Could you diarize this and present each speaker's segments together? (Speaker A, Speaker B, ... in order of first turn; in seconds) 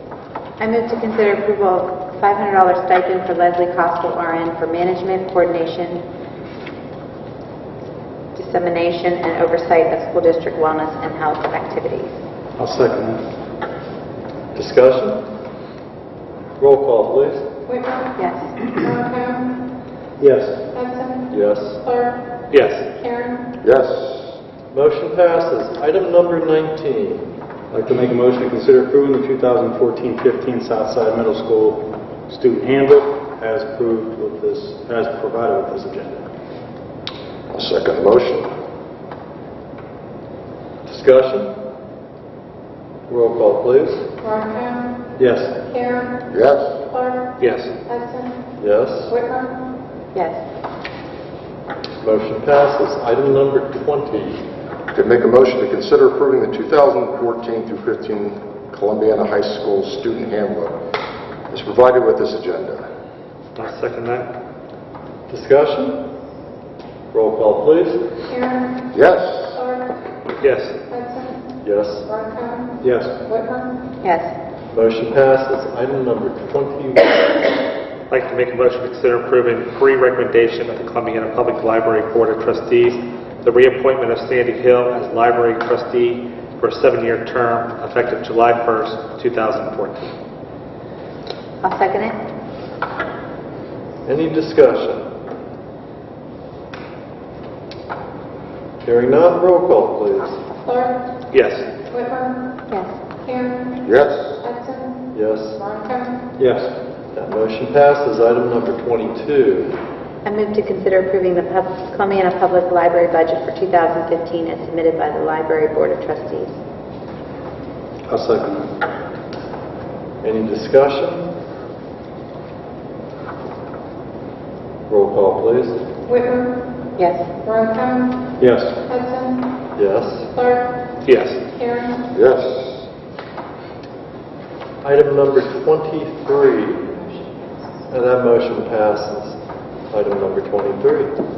Speaker A: 0.6-6.0, 8.3-12.2, 18.2-18.6, 50.1-50.4, 74.0-74.3, 91.6-92.2, 102.7-102.9, 110.2-116.5, 127.0-127.2
Speaker B: 12.6-13.2, 20.2-20.6, 27.7-36.3, 45.2-45.6, 72.8-73.2, 106.4-106.7, 118.1-118.7, 128.4-128.8
Speaker C: 14.5-15.2, 16.6-17.5, 21.3-21.8, 24.7-27.3, 40.9-41.5, 43.1-44.1, 48.6-49.2, 52.0-54.4, 65.3-66.0, 67.1-68.0, 71.6-72.1, 74.7-77.5, 94.0-95.1, 98.8-100.4, 105.1-105.6, 107.1-109.8, 120.2-121.3, 124.9-125.8, 129.7-130.3, 134.8-137.0, 137.9-139.4, 139.9-141.2
Speaker D: 18.8-19.4, 23.0-23.3, 44.3-44.8, 48.0-48.3, 71.0-71.3, 72.2-72.7, 102.0-102.3, 103.3-103.6, 126.2-126.5, 127.5-128.1, 128.9-129.4
Speaker E: 22.5-22.9, 47.4-47.7, 63.5-64.3, 70.4-70.8, 78.1-90.1, 101.3-101.7, 131.0-131.4
Speaker F: 23.6-24.3, 37.5-38.5, 46.3-46.7, 54.9-60.8, 61.5-62.9, 68.9-69.5, 103.8-104.3, 132.1-132.8